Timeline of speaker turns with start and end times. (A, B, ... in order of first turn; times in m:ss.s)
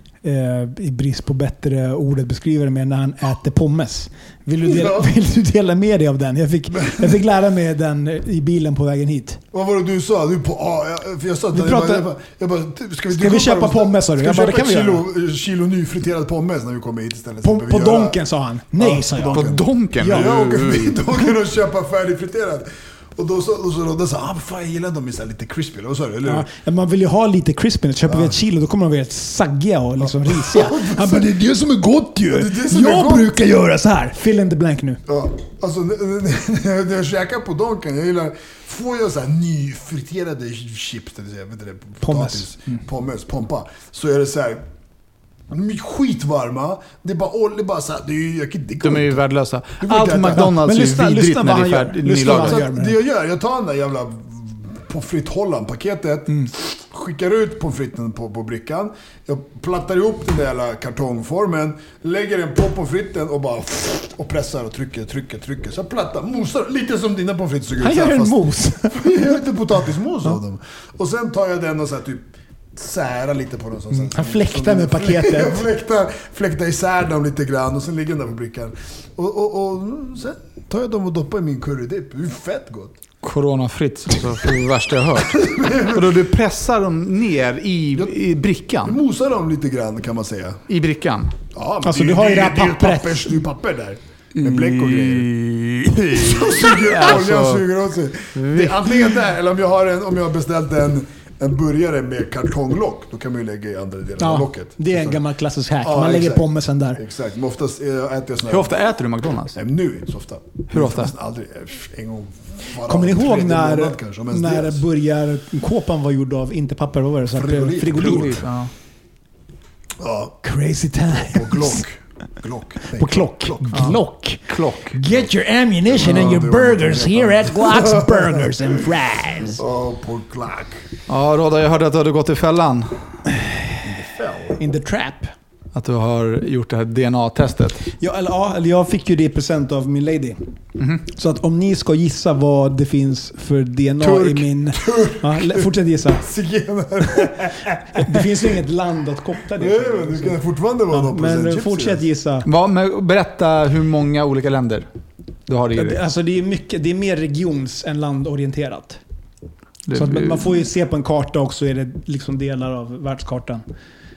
0:00.2-0:09.4 A
0:04.6-0:05.1 B
0:06.8-0:07.1 B
0:09.5-0:18.2 B
0:11.5-0:12.1 A
0:13.1-0:15.1 A
0:17.4-0:20.6 A
0:18.8-0:26.5 B
0:19.3-0:21.0 C
0:26.2-0:35.0 A
0:28.1-0:28.4 B
0:30.0-0:31.4 B
0:32.3-0:33.3 B
0:35.1-0:44.6 B
0:42.0-0:42.8 A
0:45.5-0:49.2 B
0:48.8-0:52.6 C
0:49.8-0:50.5 B
0:50.2-0:53.0 A
0:52.2-1:23.0 B
1:07.8-1:09.4 A
1:13.9-1:15.7 A
1:23.2-1:29.0 C
1:25.3-1:26.1 B
1:28.8-1:30.6 B
1:30.7-1:31.3 C
1:31.5-1:35.3 B
1:31.8-1:33.4 A
1:34.4-1:37.7 C
1:36.1-1:45.2 B
1:38.4-1:39.1 C
1:44.2-1:47.0 A
1:45.8-1:48.8 B
1:48.5-1:49.6 C
1:49.5-1:54.8 B
1:50.7-1:51.1 C
1:52.8-1:58.4 A
1:57.3-1:58.4 B
1:58.0-1:58.7 C
2:00.0-2:00.4 B
2:00.4-2:01.8 A
2:01.3-2:04.0 B
2:02.9-2:09.6 A
2:03.7-2:05.0 C
2:05.9-2:08.5 B
2:09.5-2:10.8 B
2:11.1-2:13.2 C
2:13.8-2:14.6 B
2:14.6-2:15.3 A
2:15.7-2:17.8 C
2:18.0-2:20.4 A
2:20.8-2:21.0 C
2:21.0-2:26.3 A
2:24.0-2:24.4 C
2:24.7-2:28.2 B
2:28.0-2:32.5 A
2:29.6-2:32.0 B
2:32.4-2:34.9 C
2:35.5-2:36.0 C
2:35.8-2:39.0 A
2:39.9-2:40.5 C
2:39.9-2:43.6 A